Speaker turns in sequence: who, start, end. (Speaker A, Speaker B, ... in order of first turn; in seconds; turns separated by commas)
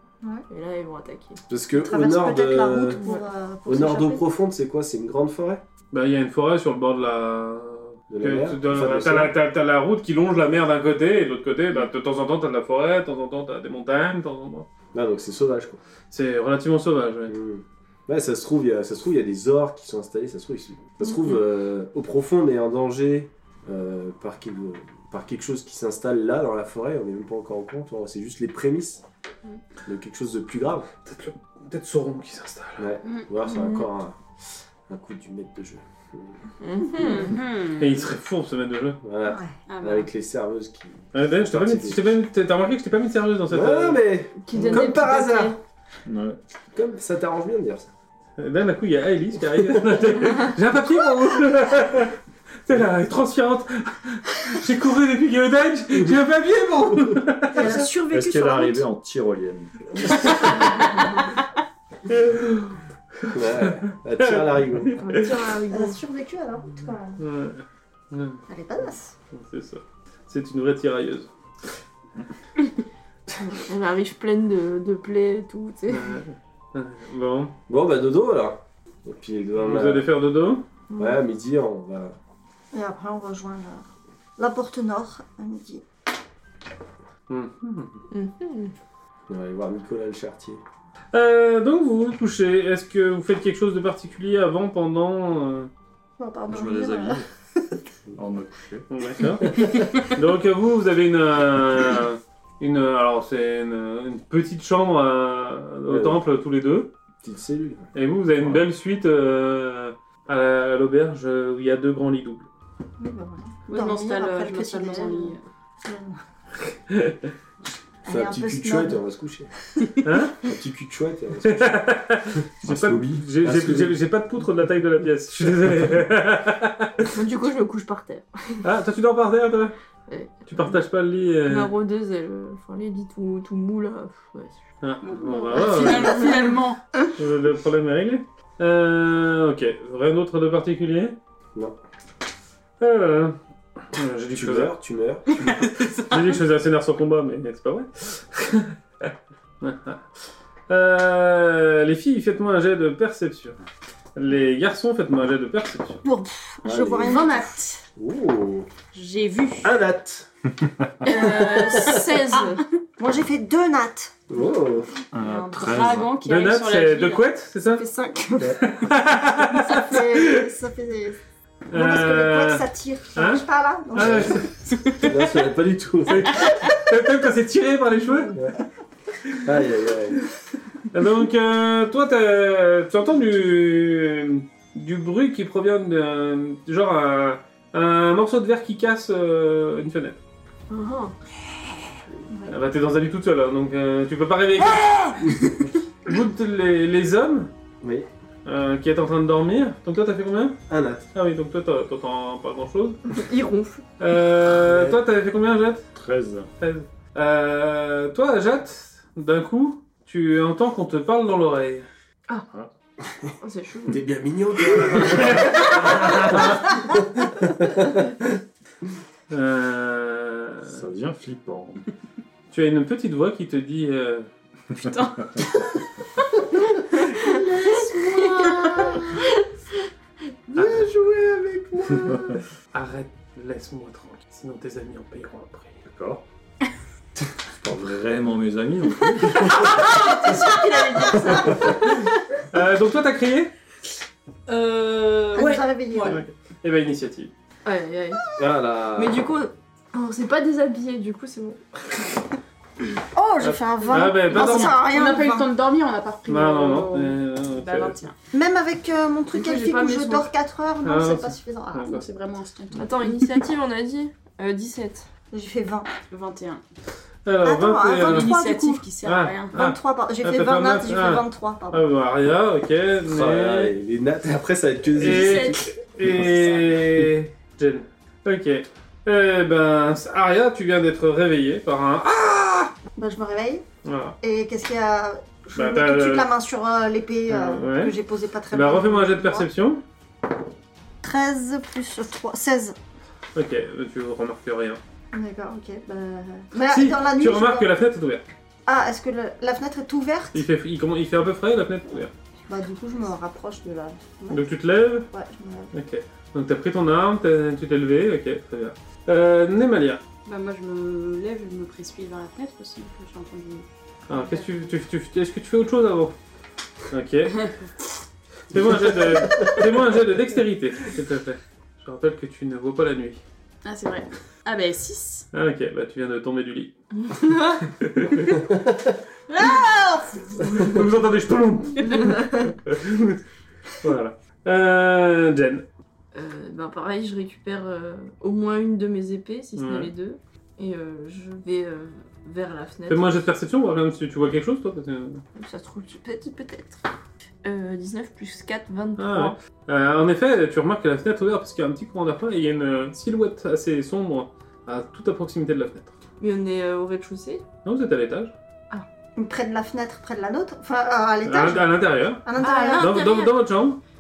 Speaker A: 0.5-1.4, Speaker B: 1.5-3.0, Speaker C: 1.7-4.2, Speaker B: 3.7-5.6, Speaker D: 5.9-14.7, Speaker B: 8.1-9.3, Speaker B: 14.9-15.8, Speaker D: 16.1-17.4, Speaker B: 17.3-29.0, Speaker B: 29.8-30.9, Speaker D: 31.0-32.9, Speaker B: 32.8-34.2, Speaker E: 33.0-33.3, Speaker A: 33.4-33.8, Speaker B: 34.9-36.4, Speaker A: 36.6-37.4, Speaker E: 37.0-38.0, Speaker D: 37.8-39.0, Speaker B: 39.0-42.1, Speaker C: 39.2-39.6, Speaker E: 39.7-40.1, Speaker D: 41.1-44.0, Speaker B: 43.5-45.6, Speaker A: 44.4-45.6, Speaker F: 46.0-46.4, Speaker B: 46.7-47.9, Speaker D: 48.4-57.8, Speaker C: 57.5-58.9, Speaker F: 57.8-60.3, Speaker D: 62.1-65.3, Speaker B: 63.3-64.9, Speaker A: 65.0-66.0, Speaker C: 65.3-67.2, Speaker D: 67.2-68.4, Speaker C: 68.5-69.1, Speaker D: 69.3-71.3, Speaker A: 73.5-76.2, Speaker D: 75.9-77.5, Speaker B: 77.7-80.0, Speaker D: 79.6-80.7, Speaker C: 80.9-81.2, Speaker B: 81.0-82.2, Speaker C: 82.7-83.8, Speaker C: 84.4-85.8, Speaker D: 87.3-88.0, Speaker A: 88.1-88.7, Speaker B: 89.3-90.6, Speaker D: 91.1-95.7, Speaker C: 96.2-97.2, Speaker F: 96.5-97.3, Speaker F: 98.2-98.8, Speaker D: 98.9-106.9, Speaker B: 99.5-99.9, Speaker B: 105.9-106.2, Speaker B: 107.2-107.9, Speaker D: 107.9-112.5, Speaker C: 113.0-116.2, Speaker E: 113.7-115.4, Speaker D: 116.9-117.3, Speaker C: 118.0-119.0, Speaker B: 118.0-119.5, Speaker D: 120.0-120.4, Speaker B: 120.4-121.8, Speaker D: 121.4-127.1, Speaker F: 122.6-123.9, Speaker A: 127.0-128.6, Speaker D: 128.6-129.7, Speaker A: 130.1-130.8, Speaker D: 130.5-131.7, Speaker A: 131.4-134.5, Speaker D: 134.8-136.2, Speaker E: 135.0-136.8, Speaker A: 135.8-136.4, Speaker D: 137.2-141.2, Speaker D: 142.8-143.4, Speaker D: 143.9-144.8, Speaker B: 144.3-145.4, Speaker D: 145.4-150.0, Speaker D: 150.7-153.6, Speaker D: 154.2-156.0, Speaker C: 156.0-157.6, Speaker B: 156.6-157.2, Speaker E: 157.0-157.8, Speaker B: 157.9-158.7, Speaker E: 158.9-159.7, Speaker B: 159.6-160.3, Speaker B: 161.0-162.1, Speaker E: 161.0-162.7, Speaker A: 161.1-162.6, Speaker C: 163.0-164.2, Speaker B: 164.3-164.9, Speaker F: 165.1-166.1, Speaker E: 165.2-167.2, Speaker D: 166.2-167.8, Speaker C: 167.8-168.6, Speaker D: 168.6-170.4, Speaker C: 169.6-171.2, Speaker D: 171.7-172.6, Speaker C: 171.7-174.5, Speaker D: 173.1-173.4, Speaker D: 173.9-174.5, Speaker B: 173.9-176.4, Speaker D: 176.1-178.3, Speaker B: 179.4-180.2, Speaker D: 180.9-190.2, Speaker A: 190.7-191.1, Speaker D: 192.5-195.2, Speaker B: 195.2-195.7, Speaker D: 196.0-197.5, Speaker B: 197.8-198.1, Speaker D: 198.4-200.6, Speaker B: 200.7-201.1, Speaker D: 201.1-203.0, Speaker A: 203.1-203.8, Speaker D: 204.0-205.9, Speaker B: 204.6-205.0, Speaker F: 205.9-206.5, Speaker D: 206.6-211.8, Speaker A: 213.4-214.0, Speaker B: 213.9-218.2, Speaker D: 215.0-216.7, Speaker D: 219.3-220.8, Speaker F: 220.7-221.8, Speaker D: 222.5-224.3, Speaker E: 224.8-225.4, Speaker E: 227.2-229.2, Speaker B: 227.2-229.0, Speaker B: 230.5-232.4, Speaker D: 230.6-230.9, Speaker D: 232.7-235.8, Speaker F: 235.8-236.2, Speaker F: 237.6-239.8, Speaker A: 239.4-242.1, Speaker E: 240.0-241.5, Speaker D: 242.5-243.5, Speaker E: 244.5-246.2, Speaker C: 245.3-246.2, Speaker D: 246.1-247.3, Speaker A: 247.6-248.3, Speaker B: 248.4-249.2, Speaker A: 248.9-252.1, Speaker C: 253.1-255.5, Speaker D: 253.4-254.8, Speaker E: 253.9-258.1, Speaker D: 256.3-258.0, Speaker C: 258.3-261.9, Speaker A: 259.3-260.3, Speaker D: 260.8-262.0, Speaker E: 261.8-263.4, Speaker A: 262.7-265.1, Speaker C: 265.3-265.9, Speaker E: 266.1-266.6, Speaker D: 267.2-268.3, Speaker C: 267.4-268.9, Speaker E: 267.9-269.6, Speaker D: 269.0-273.7, Speaker C: 269.5-271.9, Speaker B: 273.1-276.2, Speaker D: 275.0-282.7, Speaker E: 275.1-275.4, Speaker C: 282.9-283.6, Speaker D: 283.8-284.1, Speaker C: 284.2-289.5, Speaker D: 285.5-286.3, Speaker D: 287.3-287.9, Speaker D: 288.5-289.8, Speaker C: 291.0-292.7, Speaker D: 293.3-294.8, Speaker C: 295.1-297.7, Speaker D: 296.7-298.2, Speaker C: 298.6-300.4, Speaker D: 300.3-302.1, Speaker C: 302.5-304.4, Speaker D: 304.3-305.1, Speaker C: 305.1-305.7, Speaker D: 305.7-310.0, Speaker E: 310.2-313.7, Speaker D: 314.1-316.1, Speaker D: 316.9-317.4, Speaker E: 317.4-317.7, Speaker D: 318.5-323.2, Speaker B: 318.5-319.5, Speaker E: 323.6-325.3, Speaker D: 325.3-326.7, Speaker A: 327.0-327.6, Speaker D: 327.6-328.4, Speaker B: 328.5-328.8, Speaker A: 329.4-330.7, Speaker D: 330.5-333.2, Speaker A: 332.0-332.5, Speaker D: 333.8-335.6, Speaker A: 336.1-343.2, Speaker D: 339.6-339.9, Speaker D: 342.9-345.2, Speaker A: 345.4-346.8, Speaker A: 347.4-349.3, Speaker D: 349.0-355.9, Speaker A: 356.2-357.4, Speaker D: 357.6-358.3, Speaker C: 359.1-362.9, Speaker D: 361.2-363.8, Speaker A: 362.4-363.4